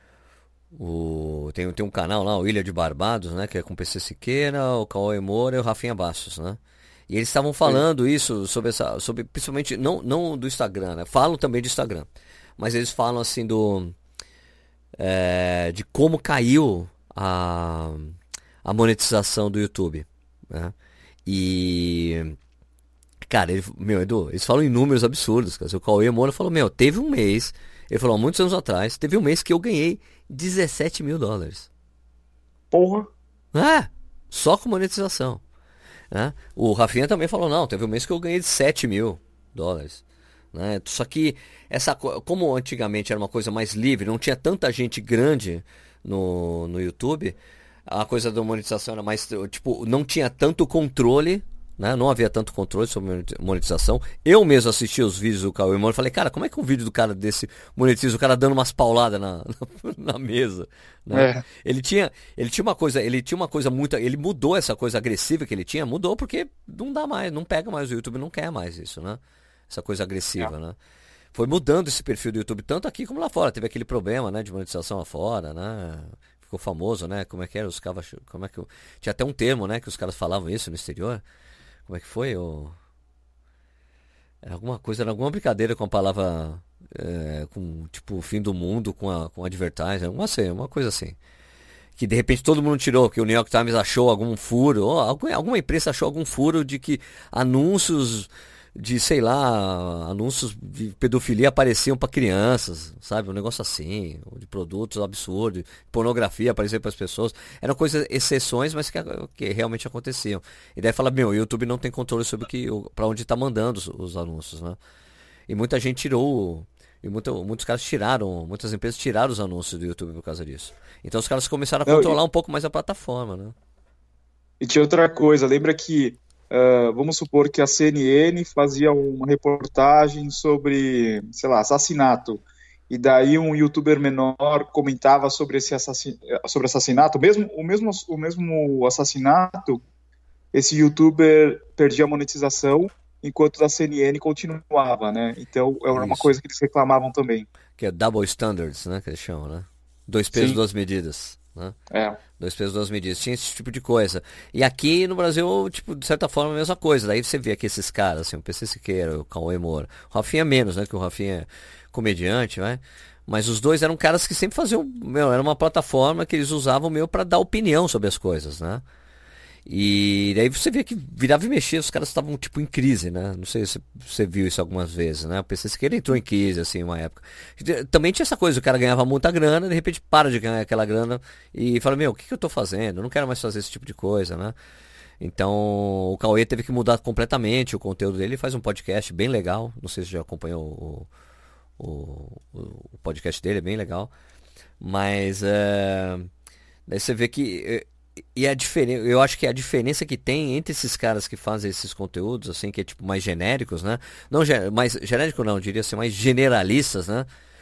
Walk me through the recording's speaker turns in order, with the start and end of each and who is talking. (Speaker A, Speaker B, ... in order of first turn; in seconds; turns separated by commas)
Speaker A: 0.7-14.0, Speaker A: 15.0-20.8, Speaker A: 21.3-22.4, Speaker A: 23.2-31.7, Speaker B: 32.7-33.1, Speaker A: 33.5-35.4, Speaker A: 36.1-70.8, Speaker B: 61.1-61.4, Speaker A: 71.3-81.2, Speaker A: 81.9-82.8, Speaker A: 84.4-91.2, Speaker A: 92.0-114.8, Speaker A: 115.5-123.5, Speaker B: 121.8-122.2, Speaker B: 124.6-139.8, Speaker B: 140.5-147.5, Speaker A: 145.9-146.4, Speaker A: 147.8-151.8, Speaker B: 150.3-150.6, Speaker B: 151.9-152.2, Speaker A: 152.4-168.8, Speaker A: 169.7-184.6, Speaker A: 185.2-191.1, Speaker A: 191.8-194.1, Speaker A: 194.8-196.3, Speaker A: 196.9-207.3